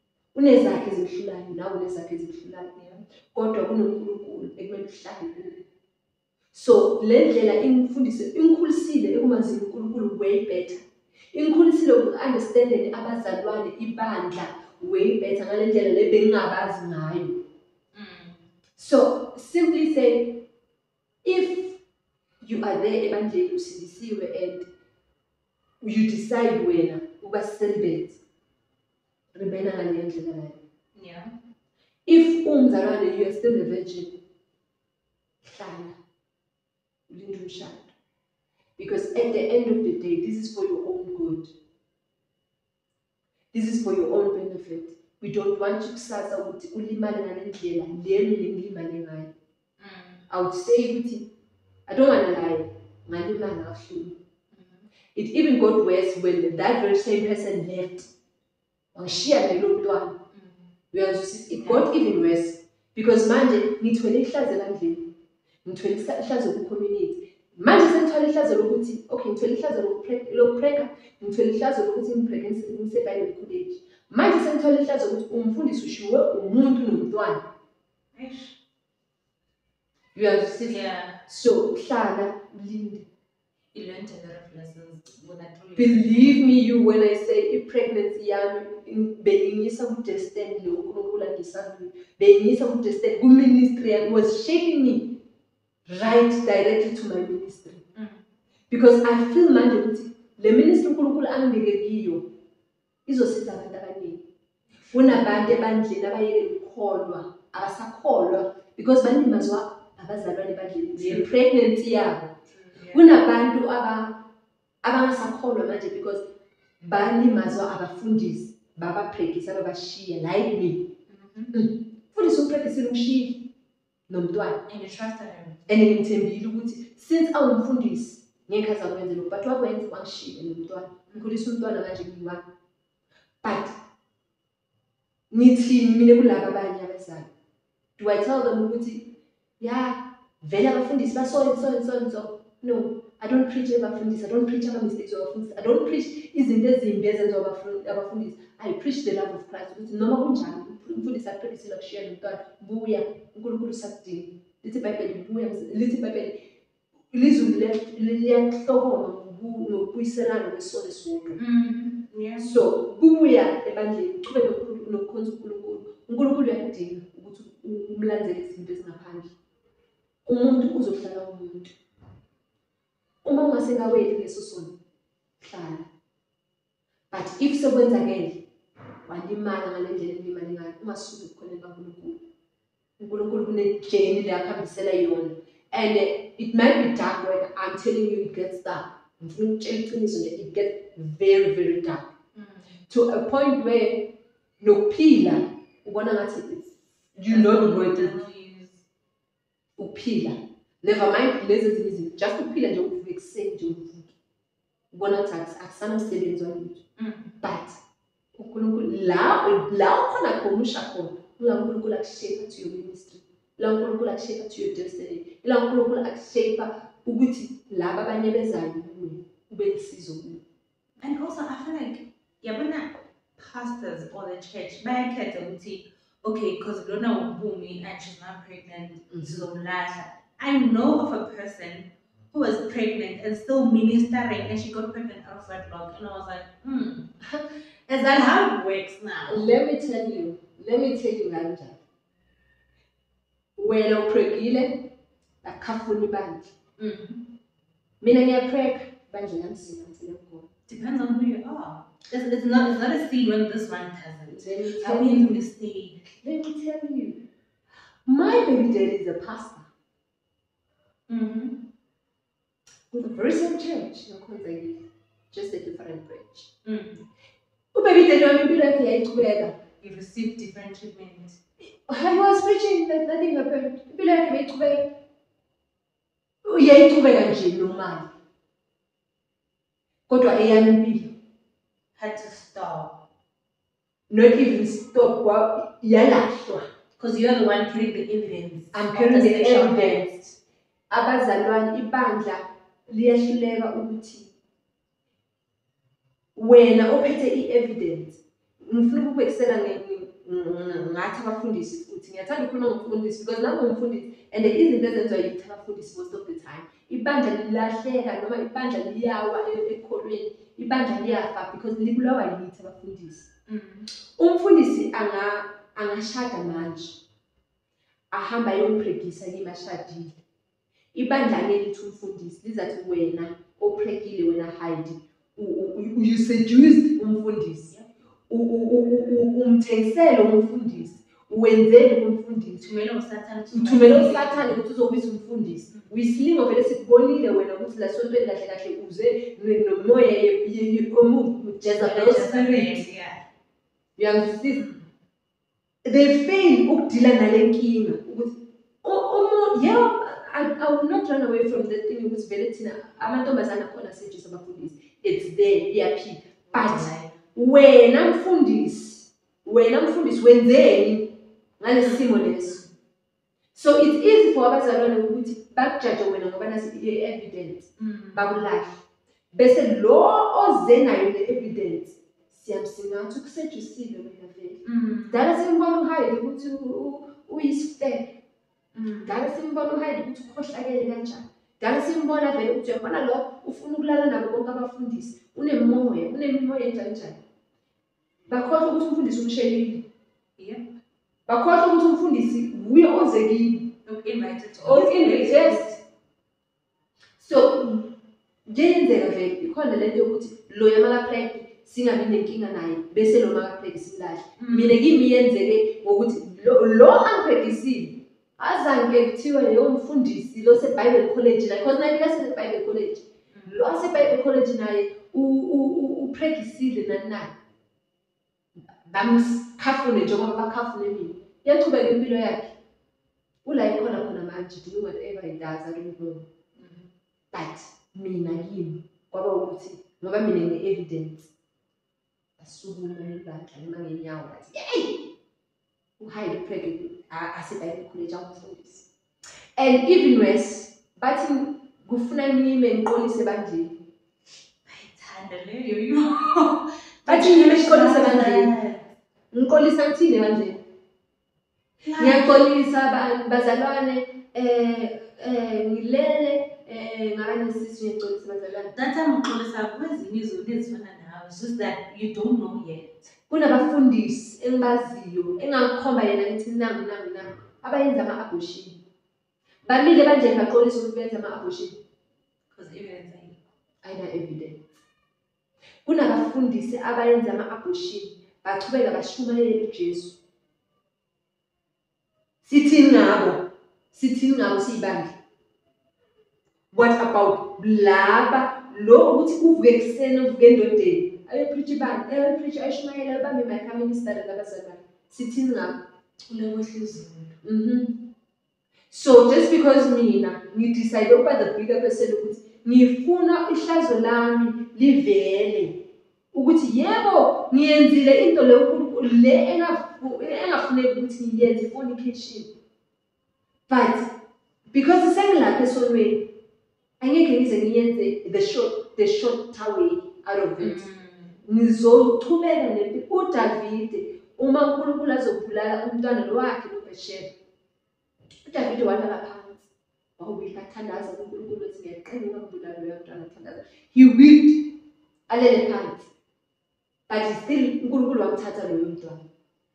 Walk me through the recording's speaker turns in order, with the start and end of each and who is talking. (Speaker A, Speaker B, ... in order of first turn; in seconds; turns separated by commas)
Speaker A: 0.3-5.6, Speaker A: 6.5-10.8, Speaker A: 11.3-17.4, Speaker B: 17.9-18.4, Speaker A: 18.8-20.4, Speaker A: 21.2-21.8, Speaker A: 22.4-24.7, Speaker A: 25.8-28.2, Speaker A: 29.3-30.6, Speaker B: 30.9-31.3, Speaker A: 32.0-34.2, Speaker A: 35.4-36.0, Speaker A: 37.1-37.9, Speaker A: 38.8-41.5, Speaker A: 43.5-49.3, Speaker B: 49.8-50.2, Speaker A: 50.3-51.3, Speaker A: 51.9-54.2, Speaker B: 54.5-54.9, Speaker A: 55.1-58.1, Speaker A: 58.9-60.2, Speaker B: 60.3-60.7, Speaker A: 60.9-65.0, Speaker B: 61.6-61.9, Speaker A: 65.6-77.4, Speaker B: 78.1-78.5, Speaker A: 80.2-83.0, Speaker B: 80.7-81.2, Speaker B: 83.7-86.4, Speaker A: 85.8-95.1, Speaker A: 95.9-97.8, Speaker B: 97.9-98.2, Speaker A: 98.7-102.2, Speaker A: 103.0-104.2, Speaker B: 104.9-105.2, Speaker A: 104.9-112.3, Speaker B: 111.0-111.3, Speaker B: 112.5-113.1, Speaker A: 112.9-114.2, Speaker A: 114.8-116.2, Speaker A: 116.8-120.9, Speaker B: 121.1-121.5, Speaker A: 121.5-123.4, Speaker A: 124.1-124.6, Speaker B: 124.7-125.6, Speaker A: 125.7-132.4, Speaker A: 133.4-133.7, Speaker A: 135.3-137.3, Speaker A: 138.0-156.4, Speaker A: 157.1-161.4, Speaker B: 161.3-162.5, Speaker A: 162.4-169.3, Speaker A: 170.2-171.7, Speaker A: 173.2-174.7, Speaker A: 175.4-175.9, Speaker A: 177.1-178.4, Speaker A: 179.1-182.2, Speaker A: 183.0-192.1, Speaker B: 192.3-192.8, Speaker A: 192.9-198.2, Speaker B: 197.3-198.8, Speaker A: 199.8-204.1, Speaker A: 204.9-206.8, Speaker B: 207.0-207.3, Speaker A: 207.4-207.8, Speaker A: 208.3-220.4, Speaker B: 221.0-237.1, Speaker A: 229.1-229.4, Speaker B: 237.9-239.5, Speaker A: 239.3-241.8, Speaker A: 243.6-244.9, Speaker A: 245.4-246.5, Speaker B: 246.8-247.2, Speaker A: 248.0-250.5, Speaker B: 250.7-256.2, Speaker A: 254.3-255.3, Speaker A: 256.2-257.2, Speaker A: 258.1-259.7, Speaker B: 261.1-261.7, Speaker A: 262.9-266.5, Speaker B: 266.6-267.0, Speaker A: 267.7-269.6, Speaker B: 269.8-271.4, Speaker A: 271.9-274.9, Speaker A: 276.4-278.1, Speaker A: 280.1-281.1, Speaker B: 281.9-283.0, Speaker A: 284.1-286.7, Speaker B: 287.0-290.2, Speaker A: 288.7-290.2, Speaker A: 290.9-294.3, Speaker A: 296.4-313.3, Speaker B: 313.5-313.9, Speaker A: 314.2-317.0, Speaker A: 318.1-320.2, Speaker A: 320.9-327.7, Speaker A: 328.3-332.6, Speaker B: 332.6-334.6, Speaker A: 333.5-342.9, Speaker B: 335.7-336.2, Speaker B: 341.8-343.2, Speaker A: 344.0-344.6, Speaker B: 344.5-344.9, Speaker A: 345.8-362.6, Speaker B: 356.5-357.2, Speaker B: 361.8-362.6, Speaker A: 363.5-378.1, Speaker B: 367.8-368.4, Speaker B: 374.6-375.2, Speaker B: 378.7-379.2, Speaker A: 379.1-387.2, Speaker A: 388.3-389.9, Speaker B: 390.4-390.7, Speaker A: 391.3-393.7, Speaker B: 393.9-395.7, Speaker A: 394.6-395.8, Speaker A: 397.2-397.9, Speaker A: 398.5-417.3, Speaker B: 404.4-404.8, Speaker B: 413.3-413.6, Speaker A: 418.8-422.5, Speaker A: 423.4-426.2, Speaker B: 426.6-426.9, Speaker A: 427.3-431.3, Speaker A: 432.4-435.1, Speaker A: 436.0-438.9, Speaker A: 439.6-443.7, Speaker B: 444.6-448.9, Speaker A: 447.1-448.5, Speaker A: 449.3-450.6, Speaker B: 451.8-452.5, Speaker A: 452.0-458.7, Speaker B: 458.7-463.1, Speaker A: 463.3-468.8, Speaker A: 469.6-471.7, Speaker B: 472.5-473.4, Speaker A: 473.8-474.6, Speaker A: 475.8-480.2, Speaker A: 482.4-485.1, Speaker A: 486.7-495.8, Speaker B: 496.3-497.4, Speaker A: 497.4-498.0, Speaker A: 498.9-505.8, Speaker A: 506.3-512.5, Speaker A: 513.7-514.1, Speaker A: 514.7-516.3, Speaker A: 517.0-520.9, Speaker B: 520.6-521.4, Speaker A: 521.4-527.3, Speaker A: 528.4-534.7, Speaker A: 535.3-536.1, Speaker A: 537.1-539.2